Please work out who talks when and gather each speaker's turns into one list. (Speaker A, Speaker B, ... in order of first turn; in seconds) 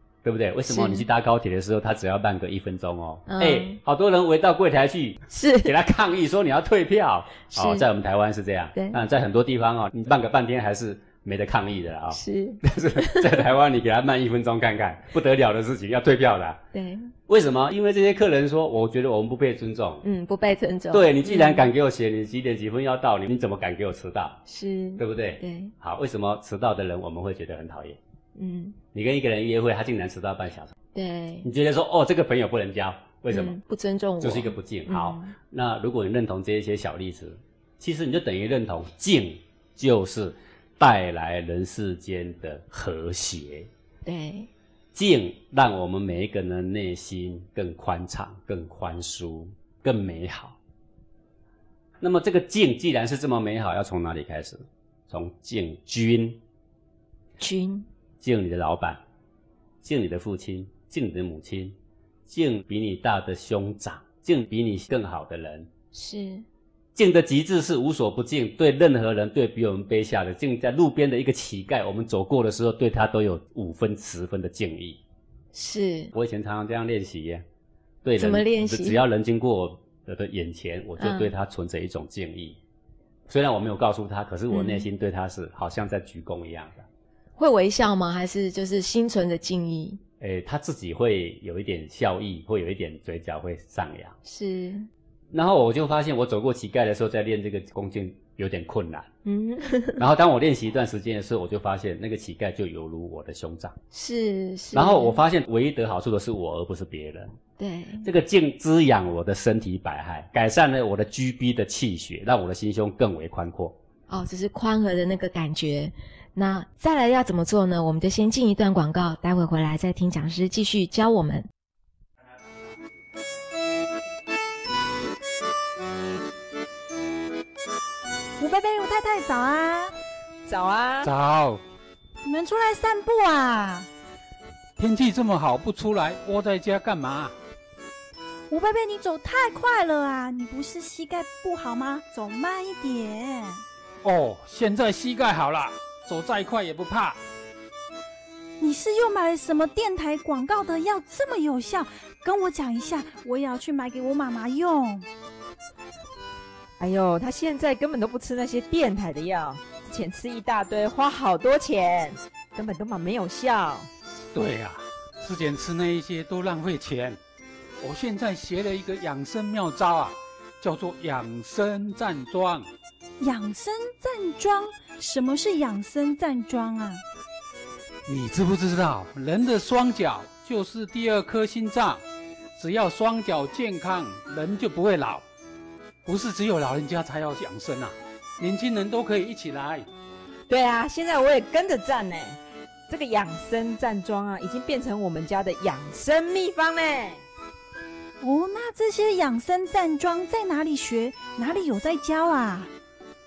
Speaker A: 0.2-16.6, 17.3-20.0, 20.9-24.4, 25.0-28.0, 28.9-30.7, 31.4-33.6, 34.2-43.7, 44.9-50.5, 52.0-56.4, 58.2-59.0, 59.8-61.7, 62.3-65.7, 66.9-75.0, 76.1-77.4, 78.0-82.6, 83.3-86.9, 90.2-94.2, 95.3-99.1, 100.0-103.8, 104.7-107.3, 108.0-113.8
Speaker B: 0.7-1.1, 3.3-3.8, 5.3-5.7, 7.5-7.9, 8.7-9.0, 12.1-13.3, 16.7-17.1, 20.0-21.7, 24.5-25.7, 28.4-28.8, 30.9-31.5, 33.3-35.3, 44.0-44.5, 57.4-57.9, 65.9-66.4, 75.5-76.1, 78.2-79.0, 81.0-81.3, 84.5-84.9, 87.4-90.0, 94.2-94.9, 99.2-100.0, 103.9-105.2, 107.6-108.1, 114.1-121.5
Speaker C: 128.4-129.9, 132.2-133.9, 138.5-143.6, 148.6-155.1, 173.2-177.0, 198.2-202.7
Speaker D: 130.4-131.1, 156.8-163.9, 190.5-197.2
Speaker E: 131.0-131.6, 134.8-137.3, 144.0-147.2, 164.3-167.2, 167.8-172.7, 178.1-182.0, 182.6-185.2, 186.0-189.9